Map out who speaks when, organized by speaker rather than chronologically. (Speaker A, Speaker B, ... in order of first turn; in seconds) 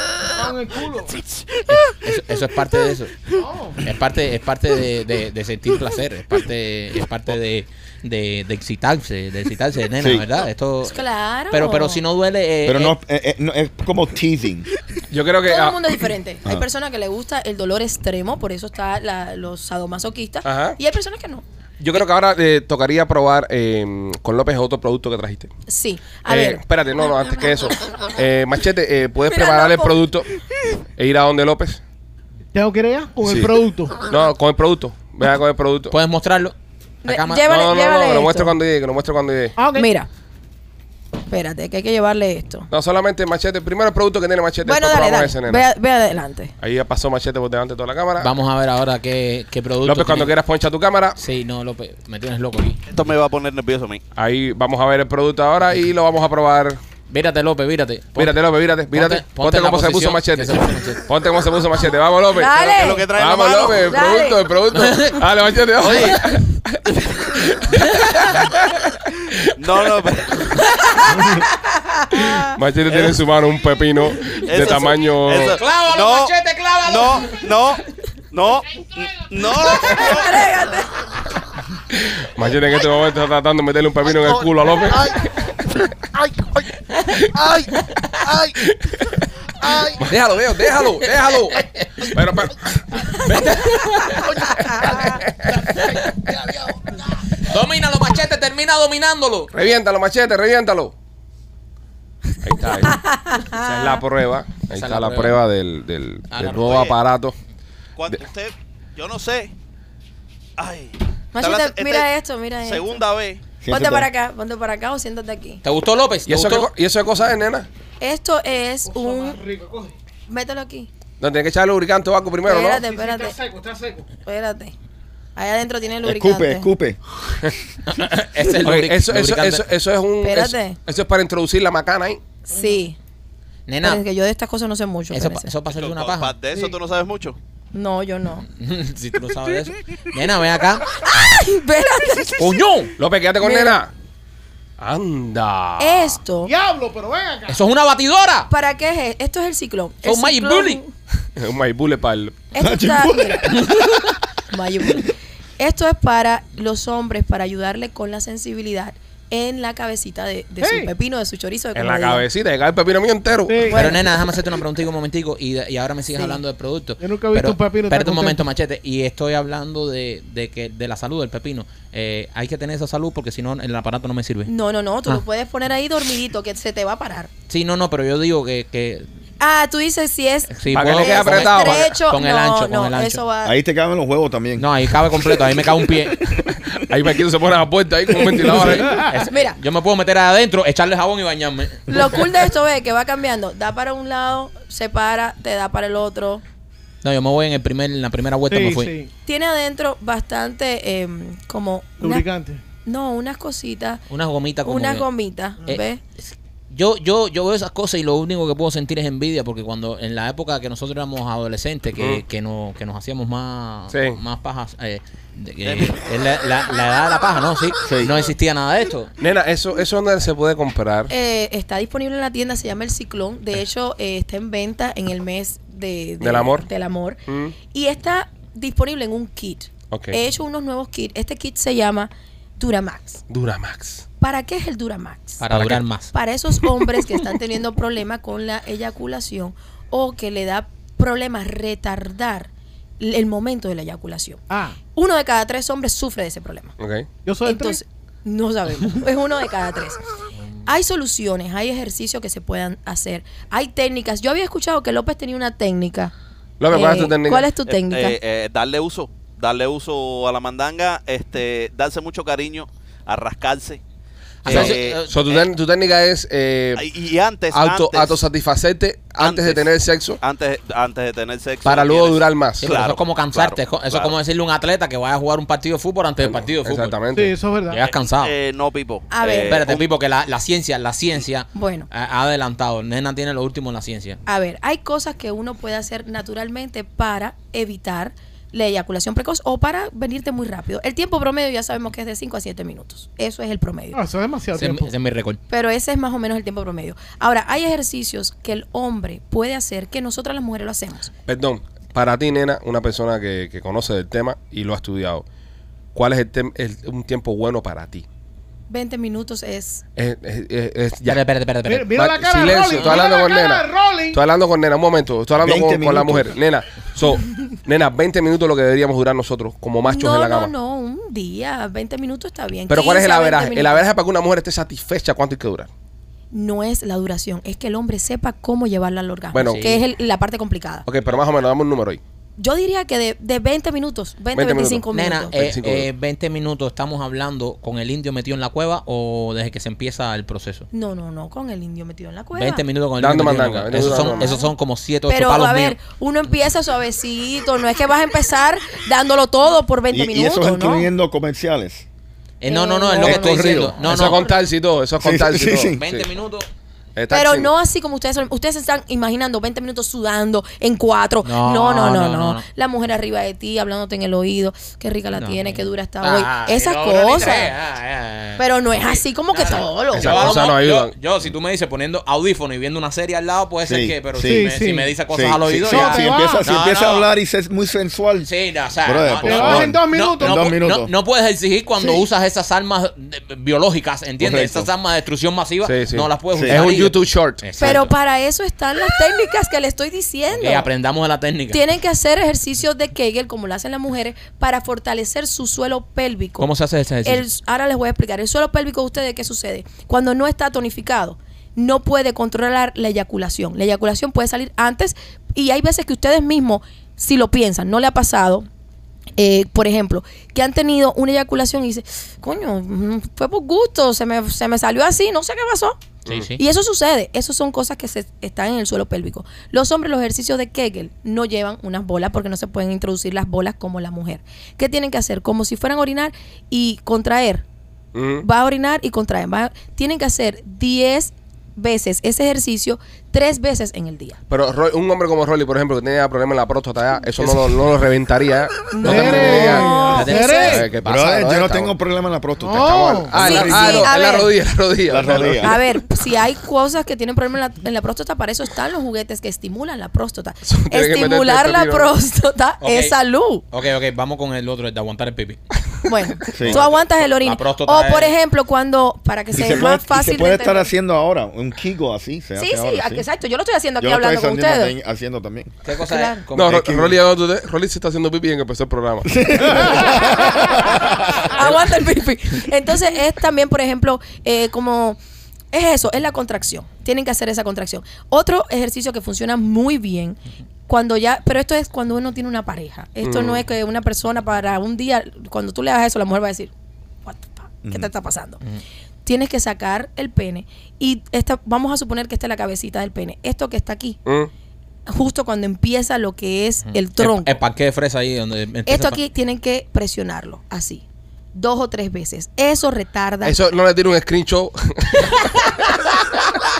Speaker A: 0.3-1.2, 3.3-3.8, 32.5-34.1, 39.6-39.9, 86.2-86.5, 118.9-119.9, 122.7-124.1, 132.6-132.8, 146.4-147.6, 160.6-160.9, 163.5-163.9, 167.0-168.5, 188.6-189.1, 198.5-199.1, 202.0-202.6, 244.5-244.8, 247.2-247.8, 277.1-277.8, 293.9-294.9, 311.6-314.2, 374.2-375.0, 375.6-376.5, 379.2-380.5, 438.8-440.7, 442.4-443.2
Speaker B: 1.7-3.3, 3.8-12.9, 35.9-37.5, 48.2-50.3, 51.2-52.8, 57.1-58.4, 58.9-61.1, 64.7-65.2, 65.8-66.3, 75.3-77.5, 87.7-88.4, 91.0-92.1, 93.1-94.9, 95.7-96.1, 97.3-99.5, 104.8-105.4, 106.3-106.8, 115.6-116.7, 127.9-129.6, 133.7-134.0, 135.1-136.3, 138.6-140.9, 142.4-142.9, 147.5-148.5, 150.0-150.8, 163.7-174.5, 177.5-179.1, 180.5-183.2, 184.6-186.3, 188.6-191.9, 197.0-198.9, 204.1-205.1, 205.7-219.1, 235.4-236.1, 264.4-265.5, 272.6-277.0, 277.7-278.4, 279.5-284.2, 294.5-295.4, 311.0-311.9, 329.4-329.8, 334.9-340.7, 342.4-345.8, 352.4-354.2, 355.8-356.5, 361.2-362.4, 365.1-377.1, 378.2-387.9, 390.4-391.6, 396.4-397.2, 416.1-416.4, 437.2-437.7, 439.9-440.6, 452.6-453.0, 453.5-455.4, 456.5-458.1, 465.6-466.9, 496.7-499.0
Speaker C: 10.0-10.3, 12.6-14.7, 113.6-114.1, 126.0-127.0, 152.6-154.2, 183.4-186.7, 217.8-218.2, 315.4-316.4, 349.9-351.9, 353.1-353.7, 355.0-355.8, 373.6-374.5, 375.1-380.9, 384.2-384.7, 386.3-386.6, 440.8-443.9, 444.9-445.6, 456.3-456.6, 459.3-463.1, 463.8-465.5, 466.4-466.9, 469.0-471.0, 487.6-487.9
Speaker D: 10.9-12.0, 15.4-21.4, 25.7-26.6, 29.3-30.0, 37.0-38.6, 39.7-40.1, 41.3-42.7, 44.6-46.5, 62.3-63.1, 63.8-64.5, 70.6-72.6, 79.8-80.9, 94.6-95.2, 102.9-104.0, 111.3-113.0, 113.7-115.6, 118.0-119.4, 120.3-120.9, 122.4-123.3, 124.2-124.7, 125.4-126.7, 130.2-130.8, 132.5-133.0, 133.8-135.5, 137.7-138.4, 141.0-142.6, 143.4-143.8, 145.8-146.5, 148.5-150.9, 152.5-153.5, 154.5-162.2, 163.7-164.0, 174.4-177.3, 179.4-183.6, 189.3-189.6, 191.9-196.4, 199.2-202.3, 202.8-204.0, 204.6-206.0, 221.1-233.2, 234.2-235.5, 236.1-244.4, 244.9-246.8, 247.4-250.0, 250.7-256.1, 256.7-258.2, 279.1-279.6, 281.5-281.9, 284.2-294.0, 295.5-301.1, 308.7-309.8, 319.9-323.8, 326.3-330.9, 332.4-335.4, 340.7-342.6, 343.8-344.5, 345.1-350.9, 352.5-354.4, 357.1-367.5, 368.4-370.3, 387.6-390.7, 391.5-396.5, 397.0-408.5, 409.2-415.8, 416.4-427.4, 428.2-434.2, 438.7-440.6, 443.1-444.3, 445.4-453.4, 455.9-460.7, 462.4-464.8, 465.9-466.2, 471.3-475.0, 475.5-486.5, 487.0-488.4, 489.0-494.0, 494.9-497.4, 498.6-503.4
Speaker E: 15.1-16.0, 20.4-20.8, 21.8-25.5, 26.3-30.3, 31.0-31.8, 33.2-35.9, 37.5-39.6, 42.7-45.6, 46.6-48.3, 49.8-51.2, 54.1-56.8, 58.2-62.6, 63.1-69.3, 72.5-75.6, 82.0-85.2, 87.1-87.7, 88.5-93.1, 94.4-96.0, 99.5-100.9, 102.4-107.3, 116.3-117.7, 121.2-122.8, 128.6-132.2, 143.0-143.9, 144.8-146.2, 151.4-152.4, 161.7-163.7, 180.7-181.9, 186.9-189.0, 212.0-212.2, 213.9-214.2, 219.2-221.1, 226.2-226.7, 227.3-227.5, 229.9-230.2, 233.3-234.1, 235.5-235.8, 246.8-247.1, 256.6-257.5, 264.5-266.9, 267.5-270.2, 271.6-272.7, 276.2-277.4, 301.3-305.2, 305.9-308.0, 310.0-311.2, 311.9-320.5, 322.7-325.7, 329.3-329.6, 330.9-332.0, 334.3-335.9, 343.0-344.3, 353.0-356.1, 357.0-357.5, 369.9-370.9, 385.6-387.7, 416.1-416.3, 427.9-428.2, 434.3-439.8, 440.4-441.7, 442.6-445.6, 450.4-451.9, 466.4-469.1, 483.0-483.4, 494.1-494.3, 503.2-505.8
Speaker F: 52.9-54.0, 62.5-63.9, 69.6-70.6, 72.9-73.2, 74.3-76.3, 76.8-80.4, 106.6-107.0, 108.0-109.5, 110.6-112.1, 112.6-113.4, 135.7-137.4, 215.6-216.1, 257.7-263.8, 264.4-265.0, 266.8-268.2, 269.2-269.7, 270.2-274.1, 278.1-279.9